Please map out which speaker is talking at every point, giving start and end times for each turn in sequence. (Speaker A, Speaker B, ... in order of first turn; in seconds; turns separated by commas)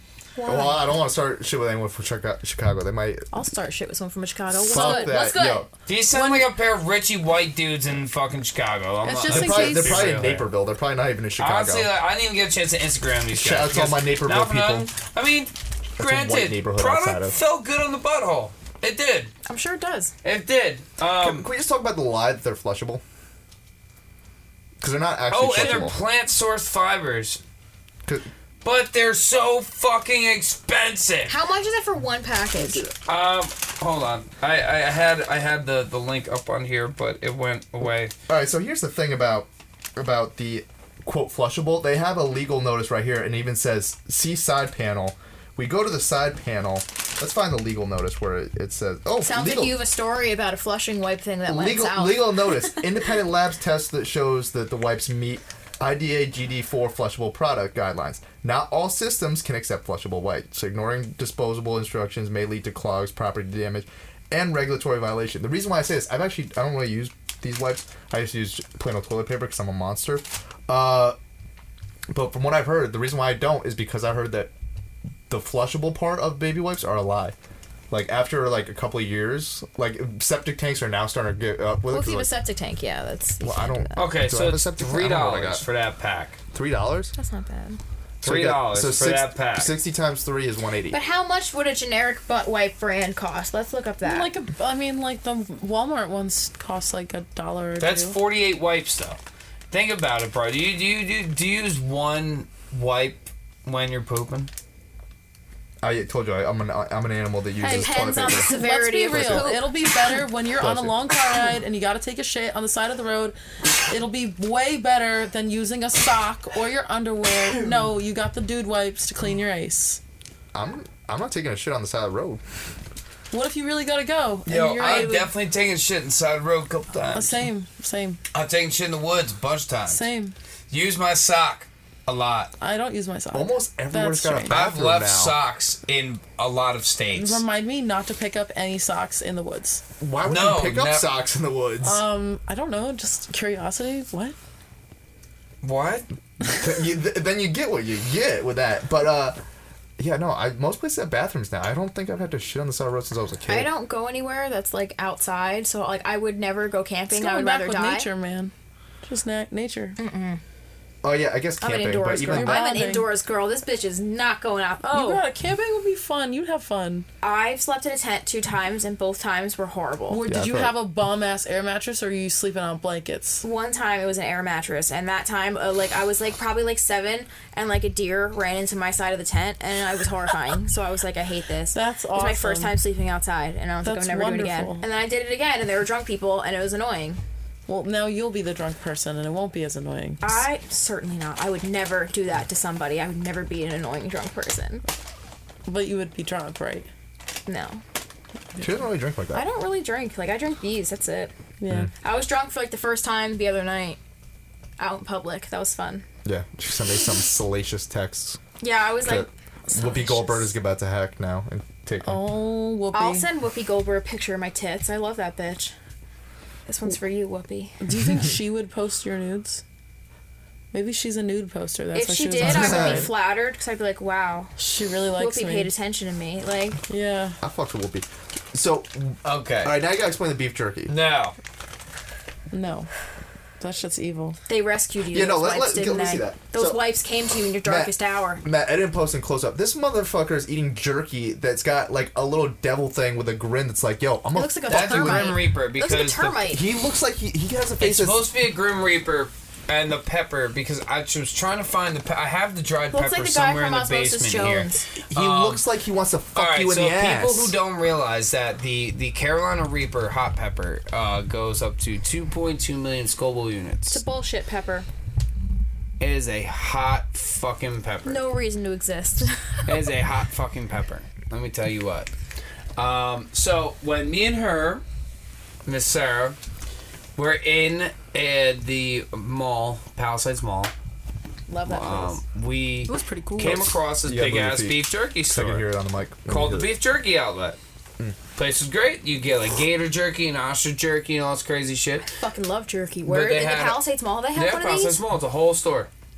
Speaker A: 0.3-0.8, Speaker B: 0.5-3.2, Speaker A: 3.3-5.7, Speaker B: 4.6-5.7, Speaker C: 5.8-10.4, Speaker D: 6.1-6.4, Speaker D: 9.0-10.1, Speaker B: 9.3-11.9, Speaker C: 11.4-19.3, Speaker B: 13.3-14.9, Speaker B: 16.0-17.4, Speaker A: 19.4-20.1, Speaker C: 20.2-21.5, Speaker B: 21.2-23.0, Speaker B: 24.8-26.0, Speaker C: 25.3-27.4, Speaker C: 28.6-31.4, Speaker A: 31.3-32.9, Speaker C: 33.0-38.1, Speaker B: 38.3-49.8, Speaker A: 49.2-52.7, Speaker B: 51.5-71.2, Speaker B: 72.1-74.5, Speaker B: 75.3-77.3, Speaker B: 77.9-82.3, Speaker A: 81.9-84.1, Speaker B: 83.4-85.6, Speaker C: 84.0-86.4, Speaker B: 86.5-87.1, Speaker A: 87.1-87.8, Speaker C: 88.2-89.7, Speaker B: 88.2-91.0, Speaker A: 90.9-94.3, Speaker D: 94.0-98.2, Speaker C: 97.8-99.2, Speaker C: 99.7-104.5, Speaker B: 105.8-108.5, Speaker D: 107.6-120.0, Speaker A: 107.6-109.7, Speaker B: 109.1-109.5, Speaker B: 110.6-110.9, Speaker B: 120.5-122.4, Speaker D: 123.3-125.3, Speaker C: 124.5-127.4, Speaker A: 124.8-125.2, Speaker D: 127.1-128.2, Speaker C: 128.3-130.0, Speaker D: 129.9-130.3, Speaker C: 130.7-132.5, Speaker D: 132.6-134.6, Speaker B: 133.3-135.4, Speaker C: 134.5-137.4, Speaker D: 137.1-139.8, Speaker B: 140.0-142.0, Speaker C: 140.2-141.1, Speaker D: 141.8-144.3, Speaker C: 145.6-146.1, Speaker B: 146.5-149.4, Speaker B: 150.0-153.7, Speaker A: 153.5-158.1, Speaker D: 157.1-158.5, Speaker D: 159.0-160.0, Speaker A: 160.0-160.4, Speaker B: 161.0-162.8, Speaker A: 161.6-165.2, Speaker D: 162.3-163.1, Speaker D: 164.8-167.1, Speaker A: 167.2-170.2, Speaker D: 170.1-173.4, Speaker B: 170.3-170.7, Speaker A: 173.4-187.2, Speaker D: 181.7-182.7, Speaker D: 183.8-184.8, Speaker D: 187.7-190.4, Speaker A: 190.2-194.8, Speaker D: 195.7-196.9, Speaker A: 197.4-197.8, Speaker B: 198.6-199.4, Speaker A: 199.3-201.3, Speaker D: 201.6-201.9, Speaker A: 202.0-204.0, Speaker A: 204.8-206.1, Speaker B: 206.2-208.4, Speaker A: 208.6-210.5, Speaker B: 209.0-212.2, Speaker D: 212.0-213.3, Speaker A: 212.9-215.7, Speaker A: 216.7-217.8, Speaker D: 217.8-219.6, Speaker D: 220.7-223.1, Speaker A: 221.9-224.5, Speaker B: 222.4-223.1, Speaker D: 224.6-225.7, Speaker A: 225.2-226.8, Speaker D: 226.9-227.4, Speaker B: 227.4-230.9, Speaker C: 229.2-229.8, Speaker C: 230.9-231.3, Speaker D: 232.5-232.9, Speaker D: 233.6-234.4, Speaker A: 234.5-238.4, Speaker B: 235.1-236.8, Speaker B: 237.6-245.4, Speaker A: 244.3-246.6, Speaker C: 244.7-246.4, Speaker B: 246.5-248.2, Speaker C: 247.8-255.6, Speaker A: 252.9-254.8, Speaker B: 255.1-257.5, Speaker C: 256.3-264.0, Speaker A: 263.9-264.9, Speaker C: 266.0-268.2, Speaker A: 268.0-269.6, Speaker C: 269.6-272.1, Speaker C: 272.8-274.8, Speaker C: 275.6-276.4, Speaker C: 277.2-280.7, Speaker A: 281.5-282.2, Speaker C: 281.6-285.7, Speaker D: 282.9-283.8, Speaker B: 284.0-286.7, Speaker C: 286.3-287.6, Speaker C: 288.4-292.1, Speaker A: 292.1-295.0, Speaker C: 293.0-293.8, Speaker C: 294.3-295.9